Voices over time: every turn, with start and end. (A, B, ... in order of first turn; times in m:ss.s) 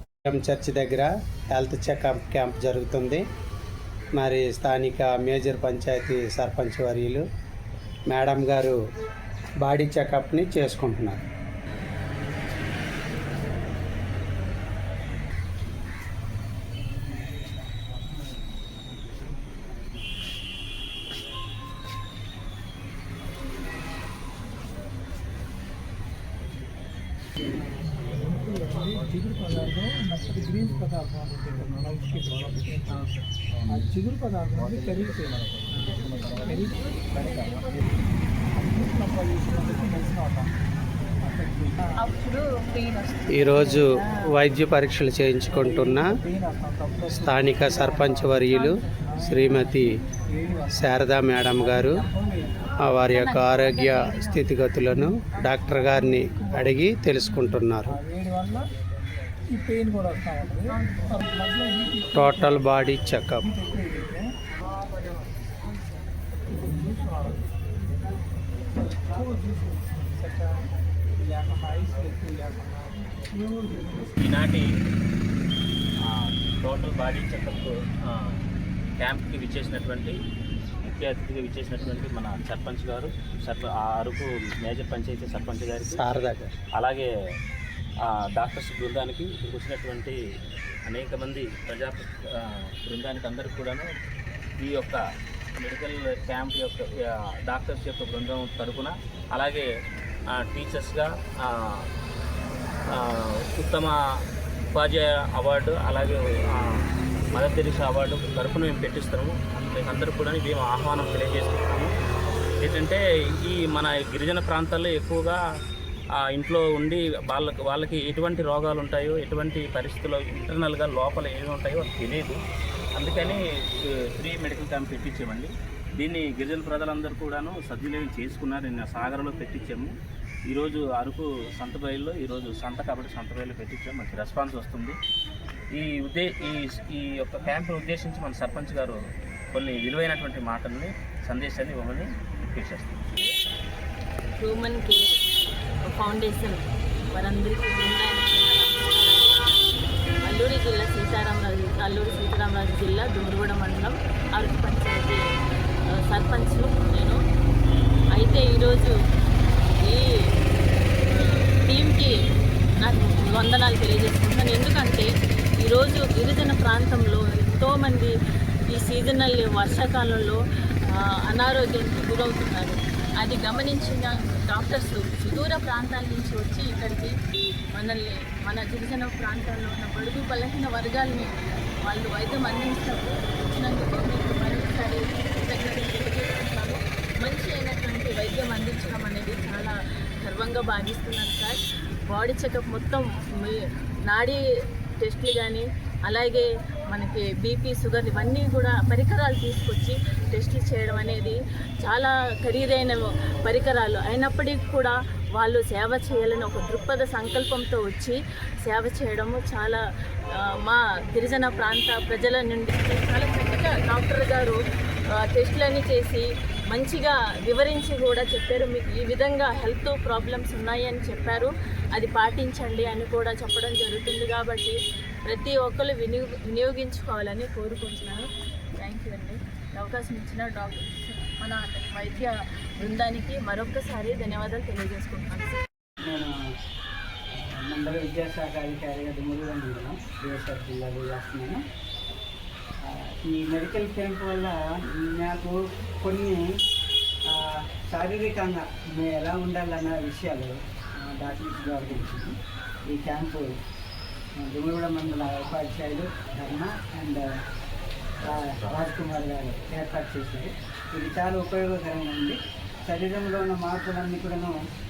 0:00.3-0:03.2 A
0:04.2-0:07.2 A
0:08.1-0:08.8 A
0:09.6-0:11.2 A
0:27.9-0:33.1 B
0:33.7-0:35.5 B
0:36.4-0:37.9 B
0:38.5-0:40.5 B
0:41.2-0:42.1 B
0:43.3-0:46.0 A
0:45.5-0:52.6 B
0:47.1-0:48.7 A
0:49.3-0:49.9 A
0:50.8-0:52.0 A
0:52.8-0:58.0 A
0:55.8-0:56.7 B
0:57.9-0:58.6 B
0:59.5-1:02.7 B
1:02.2-1:03.4 A
1:03.4-1:05.3 B
1:06.3-1:07.6 B
1:08.8-1:14.1 B
1:14.2-1:14.7 C
1:16.0-1:18.5 C
1:19.0-1:20.2 C
1:20.8-1:26.0 C
1:25.9-1:26.5 A
1:26.8-1:27.1 C
1:28.0-1:30.2 C
1:30.9-1:33.9 C
1:34.6-1:35.0 C
1:35.6-1:39.7 C
1:40.3-1:41.9 C
1:42.9-1:44.0 C
1:44.7-1:51.9 C
1:52.6-1:55.4 C
1:56.2-2:02.4 C
2:03.0-2:09.9 C
2:10.5-2:15.0 C
2:15.7-2:19.0 C
2:19.5-2:23.0 C
2:24.4-2:25.2 D
2:25.8-2:29.3 D
2:30.2-2:35.2 D
2:35.9-2:37.2 D
2:38.1-2:38.9 D
2:39.8-2:40.1 D
2:41.1-2:42.2 D
2:42.8-2:48.1 D
2:48.7-2:57.1 D
2:57.7-3:01.3 D
3:01.8-3:14.4 D
3:15.0-3:34.6 D
3:35.1-3:48.3 D
3:48.8-3:55.6 D
3:56.0-3:56.3 E
3:57.3-4:01.6 E
4:02.8-4:06.4 E
4:07.3-4:12.4 E
4:12.9-4:13.6 E
4:14.4-4:17.2 E
4:18.2-4:18.8 C
4:18.2-4:24.5 E